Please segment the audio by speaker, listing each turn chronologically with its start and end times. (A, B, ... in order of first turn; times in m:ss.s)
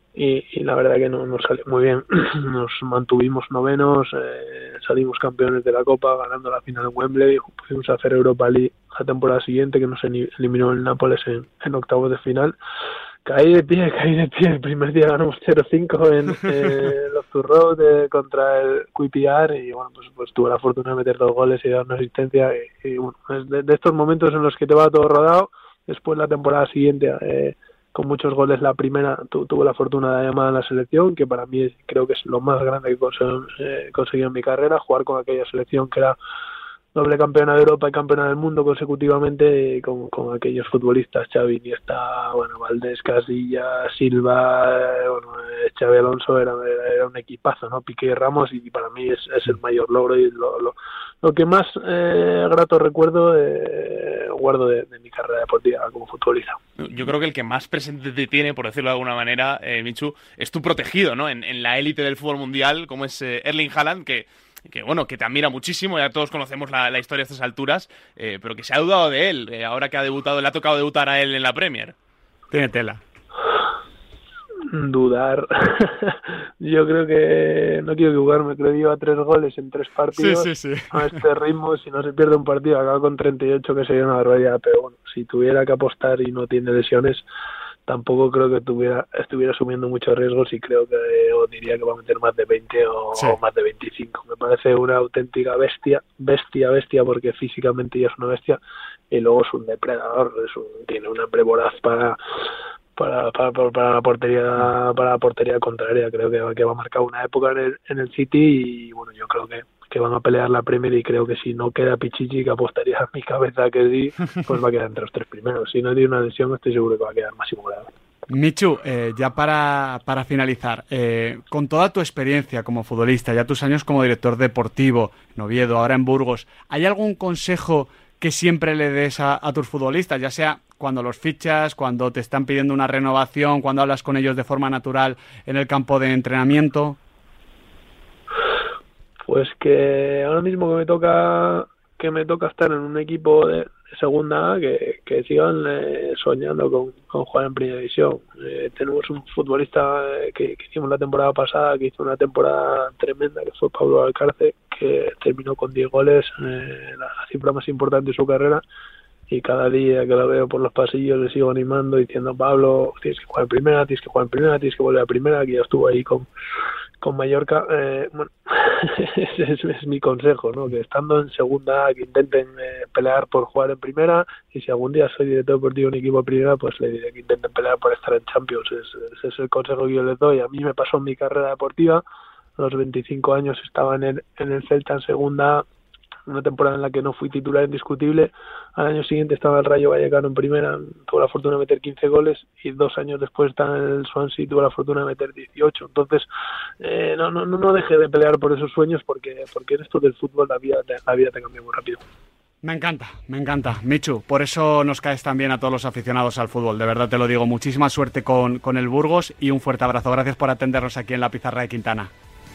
0:00.1-0:12.6 A
0:13.2-0:36.2 A
0:36.9-0:56.6 A
0:56.8-1:11.9 B
1:12.5-1:13.0 C
1:14.7-1:27.2 A
1:20.2-1:21.2 C
1:27.8-1:38.6 A
1:39.1-1:42.2 A
1:43.0-1:57.9 A
1:58.3-2:17.0 C
2:19.2-2:38.6 A
2:39.3-2:46.3 A
2:47.0-3:02.0 A
3:02.6-3:05.6 A
3:06.3-3:16.3 A
3:16.8-3:22.0 A
3:22.6-3:32.1 C